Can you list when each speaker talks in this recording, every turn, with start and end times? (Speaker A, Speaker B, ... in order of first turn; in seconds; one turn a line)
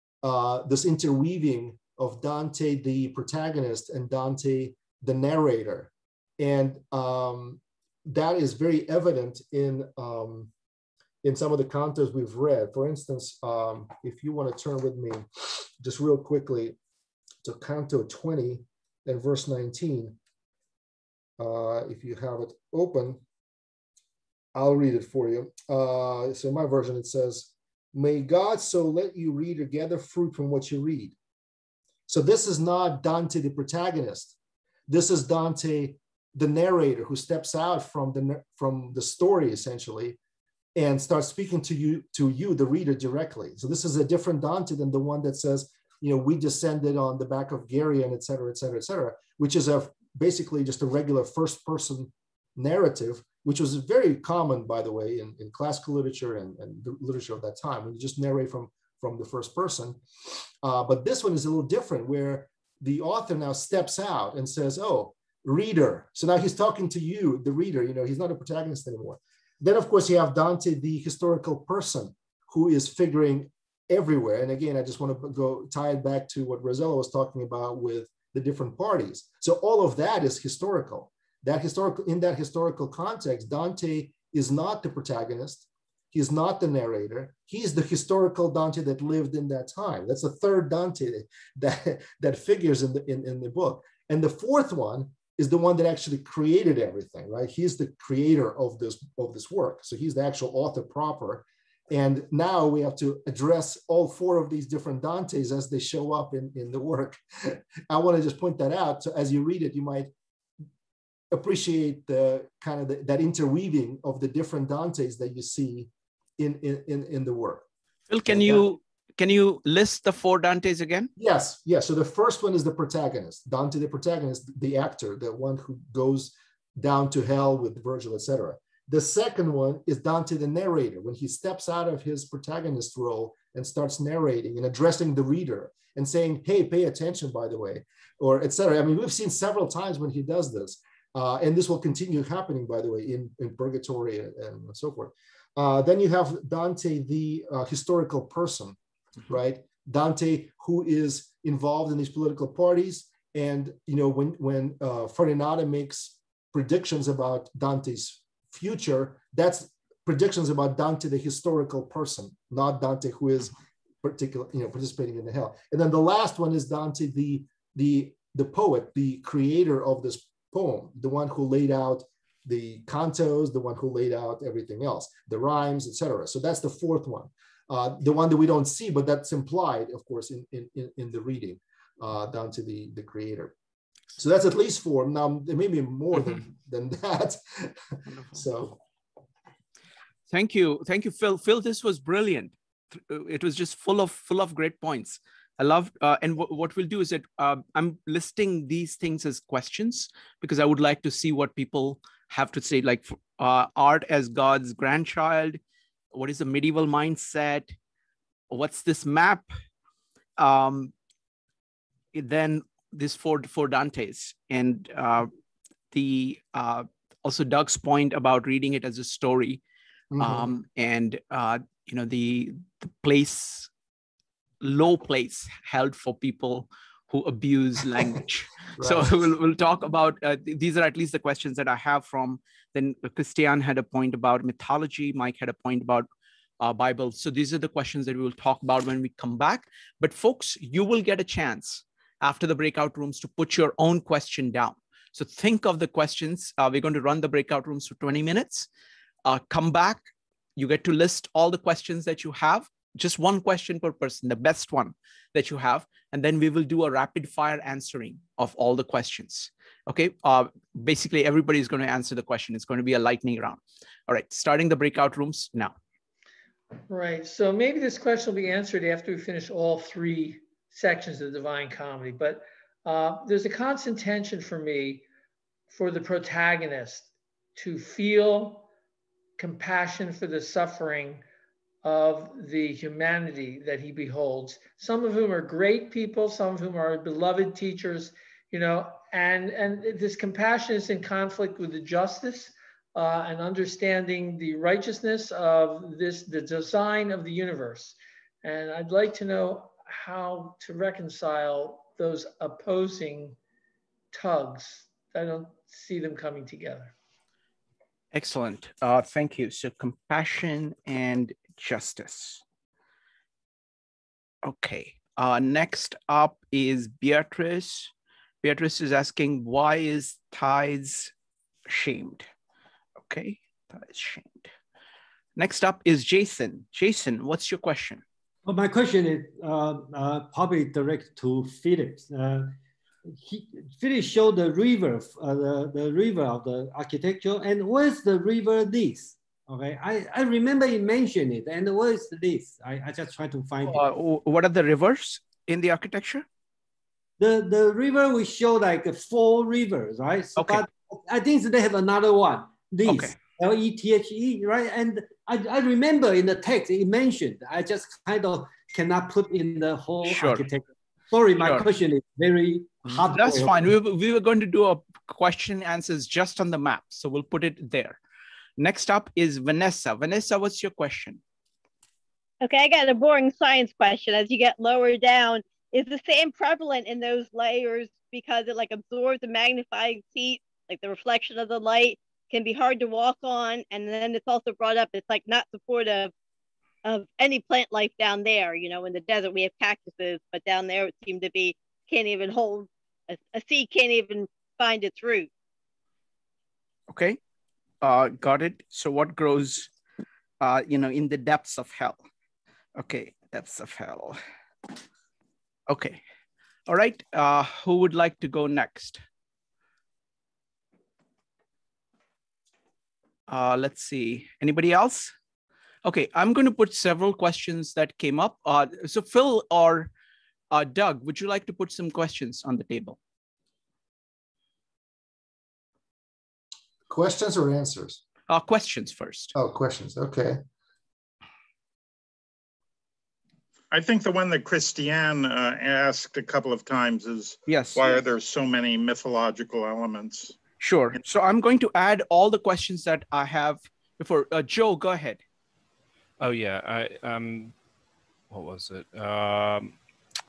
Speaker A: 0.2-10.5
Speaker A: 11.2-16.8
Speaker A: 17.4-20.2
Speaker A: 21.4-23.2
Speaker A: 24.5-31.2
Speaker A: 32.1-34.4
Speaker A: 34.9-40.2
Speaker A: 40.8-60.0
Speaker A: 60.6-110.1
Speaker A: 111.3-117.7
Speaker B: 118.1-121.1
Speaker A: 118.3-118.7
Speaker A: 121.2-183.5
Speaker A: 184.2-188.8
Speaker B: 190.3-205.6
Speaker B: 206.1-207.7
Speaker B: 208.5-209.5
Speaker B: 210.4-210.9
Speaker B: 212.1-215.3
Speaker B: 215.9-219.6
Speaker A: 220.1-220.5
Speaker B: 220.2-223.7
Speaker B: 224.6-236.1
Speaker A: 228.8-229.2
Speaker B: 236.6-248.7
Speaker B: 249.2-250.1
Speaker B: 250.6-265.8
Speaker C: 266.9-275.1
Speaker C: 275.7-278.7
Speaker C: 279.4-281.2
Speaker C: 281.8-303.4
Speaker C: 304.1-306.9
Speaker B: 308.1-312.4
Speaker B: 314.4-317.9
Speaker B: 318.4-321.1
Speaker B: 321.7-322.3
Speaker B: 323.1-324.5
Speaker B: 325.4-328.0
Speaker D: 328.4-332.6
Speaker D: 333.1-343.8
Speaker B: 343.7-346.3
Speaker D: 347.2-363.7
Speaker B: 350.4-350.6
Speaker B: 352.9-353.2
Speaker B: 360.1-360.4
Speaker B: 361.4-361.7
Speaker B: 362.9-368.0
Speaker B: 368.6-371.2
Speaker E: 372.4-386.1
Speaker E: 386.9-395.3
Speaker B: 396.9-397.2
Speaker B: 397.8-399.7
Speaker B: 400.4-402.0
Speaker B: 402.8-404.2
Speaker B: 405.7-406.0
Speaker B: 406.7-409.0
Speaker B: 413.3-415.1
Speaker B: 415.8-419.9
Speaker B: 420.5-423.0
Speaker A: 426.9-428.0
Speaker B: 428.3-429.4
Speaker A: 429.4-430.4
Speaker F: 433.7-440.4
Speaker B: 437.5-437.9
Speaker B: 440.6-445.2
Speaker G: 446.2-447.5
Speaker G: 448.3-449.8